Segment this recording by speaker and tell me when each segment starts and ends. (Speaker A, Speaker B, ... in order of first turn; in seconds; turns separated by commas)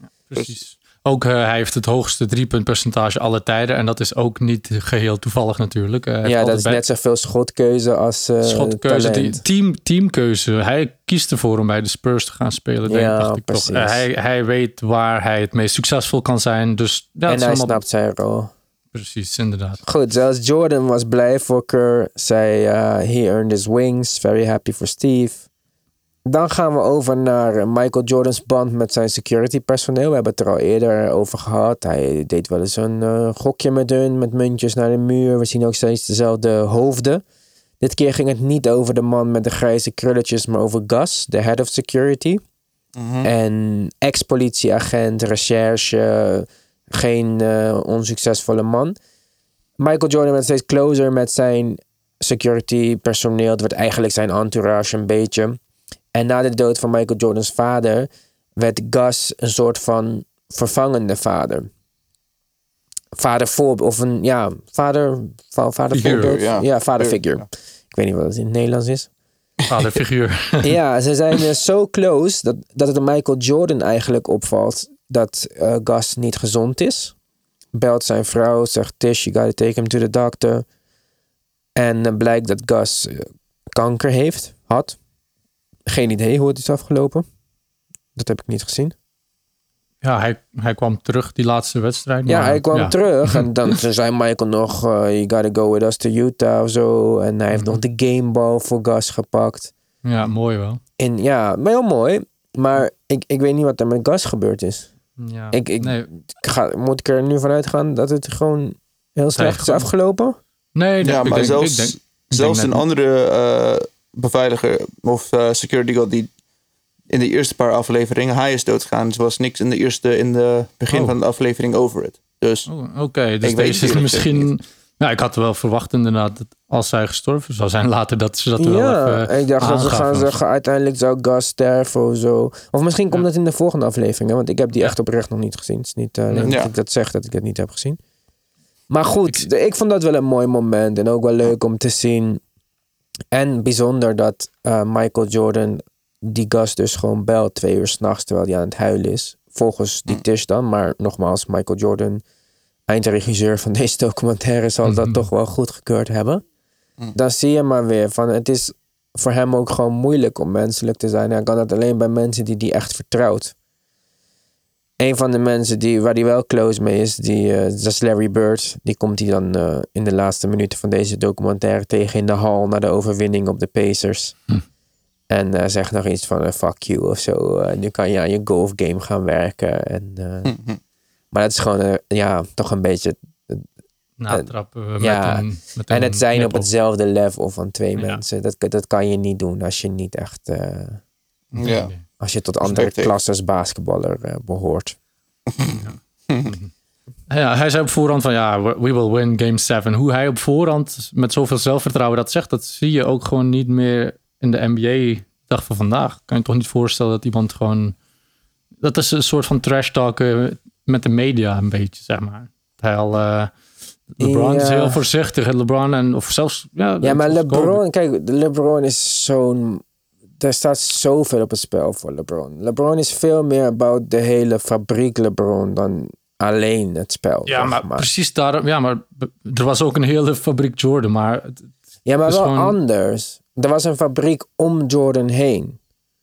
Speaker A: 0.3-6.8, Speaker B: 6.2-9.4, Speaker A: 8.4-17.8, Speaker B: 12.9-14.0, Speaker B: 17.3-18.5, Speaker A: 18.9-19.8, Speaker B: 19.8-25.4, Speaker B: 26.3-37.2, Speaker B: 37.8-42.4, Speaker C: 43.0-43.3, Speaker B: 43.2-49.0, Speaker B: 49.8-55.6, Speaker B: 56.1-61.7, Speaker B: 63.1-69.1, Speaker A: 65.9-66.4, Speaker C: 66.0-67.4, Speaker A: 69.7-70.8, Speaker B: 70.6-77.1, Speaker B: 77.7-80.6, Speaker B: 81.8-85.0, Speaker B: 85.9-87.2, Speaker B: 88.2-88.9, Speaker A: 90.0-93.7, Speaker B: 92.3-99.7, Speaker A: 97.5-97.8, Speaker A: 100.0-100.8, Speaker B: 101.0-104.9, Speaker A: 105.2-106.1, Speaker B: 105.5-110.4, Speaker A: 109.3-109.9, Speaker A: 110.7-112.8, Speaker C: 111.0-116.3, Speaker C: 117.1-122.7, Speaker A: 122.7-130.3, Speaker C: 123.4-124.5, Speaker B: 128.6-138.0, Speaker A: 136.3-136.6, Speaker C: 136.4-136.7, Speaker B: 138.9-142.4, Speaker B: 143.3-152.2, Speaker B: 152.9-156.4, Speaker A: 154.8-155.2, Speaker B: 157.1-163.5, Speaker B: 165.0-174.4, Speaker B: 175.3-180.6, Speaker C: 180.4-180.8, Speaker B: 181.3-183.6, Speaker A: 184.2-186.7, Speaker B: 185.0-191.0, Speaker A: 187.9-188.2, Speaker C: 191.5-191.9, Speaker A: 191.5-192.0, Speaker B: 192.2-195.0, Speaker C: 192.6-193.1, Speaker C: 195.5-196.5, Speaker A: 195.7-196.7, Speaker A: 197.3-207.9, Speaker A: 208.8-213.5, Speaker A: 214.1-217.8, Speaker B: 214.2-215.0, Speaker B: 217.0-219.8, Speaker B: 220.4-228.1, Speaker A: 227.4-231.7, Speaker B: 232.1-235.8, Speaker A: 232.2-232.8